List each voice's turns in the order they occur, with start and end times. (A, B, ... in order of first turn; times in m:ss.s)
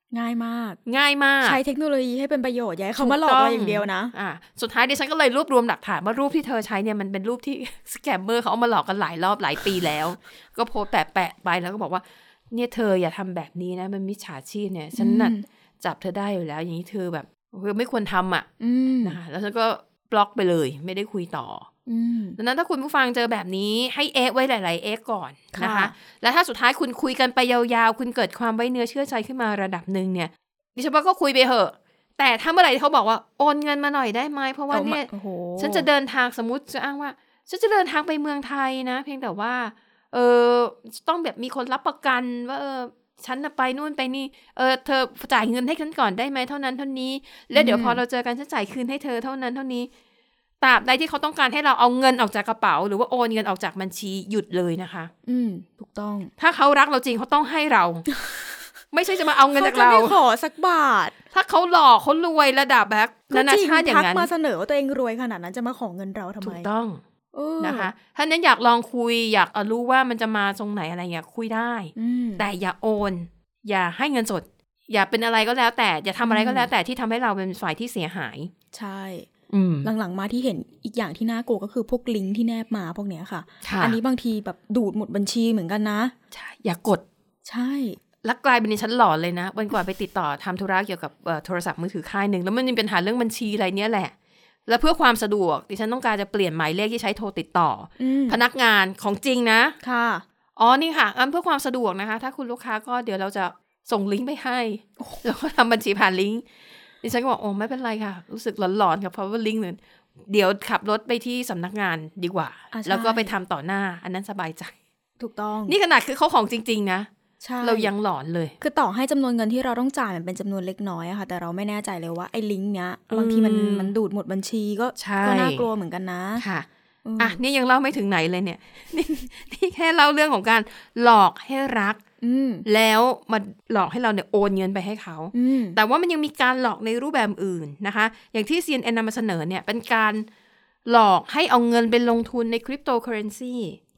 0:00.1-0:00.8 A
0:00.9-0:01.6 B
0:01.4-0:04.1 A
0:03.0-0:18.5 B
0:15.0-0:15.4 A
0:18.6-0:19.2 A
0:19.0-0:21.7 B
0:21.9-0:22.4 A
0:22.4-0:49.9 B
0:25.5-0:25.9 A
0:34.7-0:35.9 A
0:47.6-0:48.0 A
0:50.6-0:55.1 B
0:55.3-0:56.3 A
0:56.4-0:58.1 B
0:58.9-1:00.2 B
0:59.5-1:01.2 A
1:01.3-1:04.3 B
1:03.3-1:06.7 A
1:06.4-1:07.0 B
1:07.3-1:07.9 A
1:07.6-1:18.5 B
1:12.0-1:12.5 A
1:16.2-1:16.7 A
1:18.7-1:19.3 A
1:19.5-1:19.9 B
1:19.8-1:26.1 A
1:23.6-1:24.0 B
1:26.3-1:27.0 B
1:27.5-1:28.0 A
1:28.2-1:34.1 B
1:34.7-1:39.8 B
1:38.0-1:38.4 A
1:39.8-1:40.2 A
1:40.6-1:46.4 B
1:47.0-1:54.8 B
1:52.7-1:53.3 A
1:55.2-1:55.8 A
1:55.7-1:57.1 B
1:57.4-1:57.9 A
1:57.6-1:58.6 B
1:58.6-2:06.4 A
2:03.1-2:03.9 B
2:05.0-2:05.7 B
2:06.4-2:06.7 B
2:07.1-2:07.4 A
2:07.2-2:12.0 B
2:12.2-2:12.6 A
2:12.7-2:20.3 B
2:15.3-2:15.8 A
2:20.9-2:23.8 B